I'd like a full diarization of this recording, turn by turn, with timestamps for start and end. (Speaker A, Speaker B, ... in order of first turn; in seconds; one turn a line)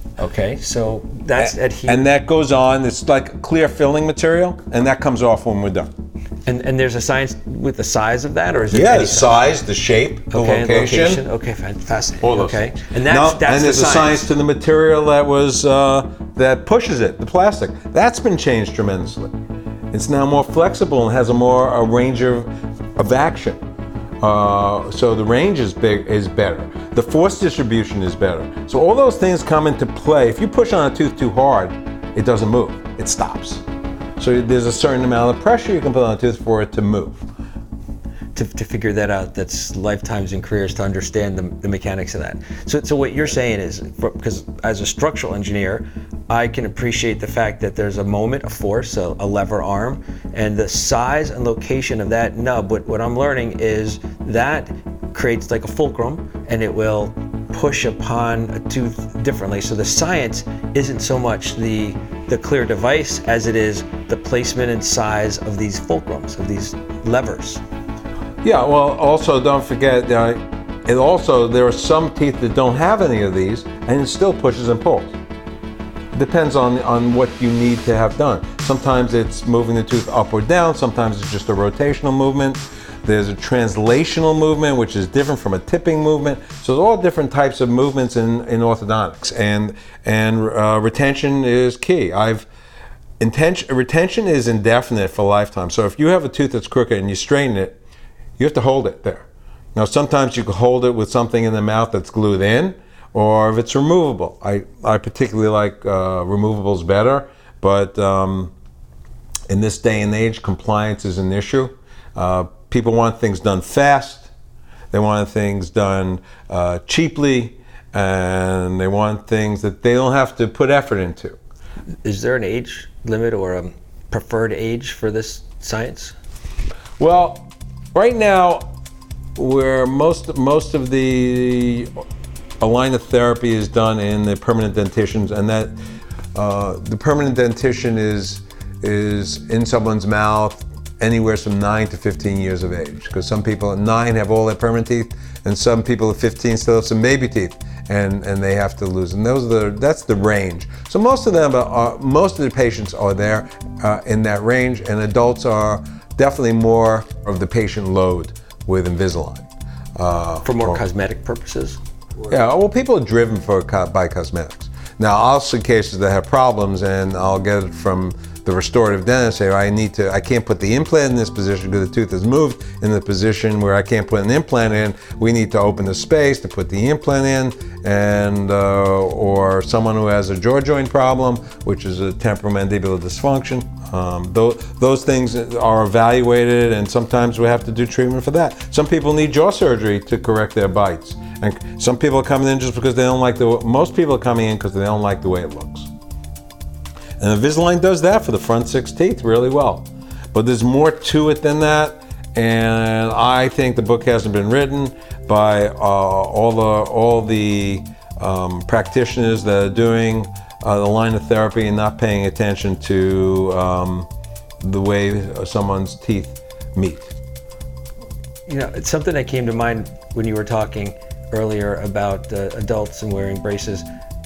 Speaker A: 0.2-2.0
Speaker B: 1.4-5.9
Speaker A: 6.5-9.4
Speaker B: 8.7-11.2
Speaker A: 10.3-14.3
Speaker B: 12.2-19.3
Speaker B: 19.9-23.6
Speaker B: 24.2-33.6
Speaker B: 34.2-37.2
Speaker A: 38.4-67.6
Speaker B: 68.4-75.2
Speaker B: 76.1-92.5
Speaker B: 93.2-97.8
Speaker B: 98.4-108.5
Speaker B: 109.5-114.3
Speaker B: 114.9-121.4
Speaker A: 122.0-126.2
Speaker B: 127.0-128.7
Speaker B: 129.4-131.9
Speaker B: 132.6-135.8
Speaker B: 136.3-160.8
Speaker A: 160.4-161.8
Speaker B: 162.3-195.9
Speaker B: 197.2-214.1
Speaker B: 214.6-217.1
Speaker A: 218.5-223.8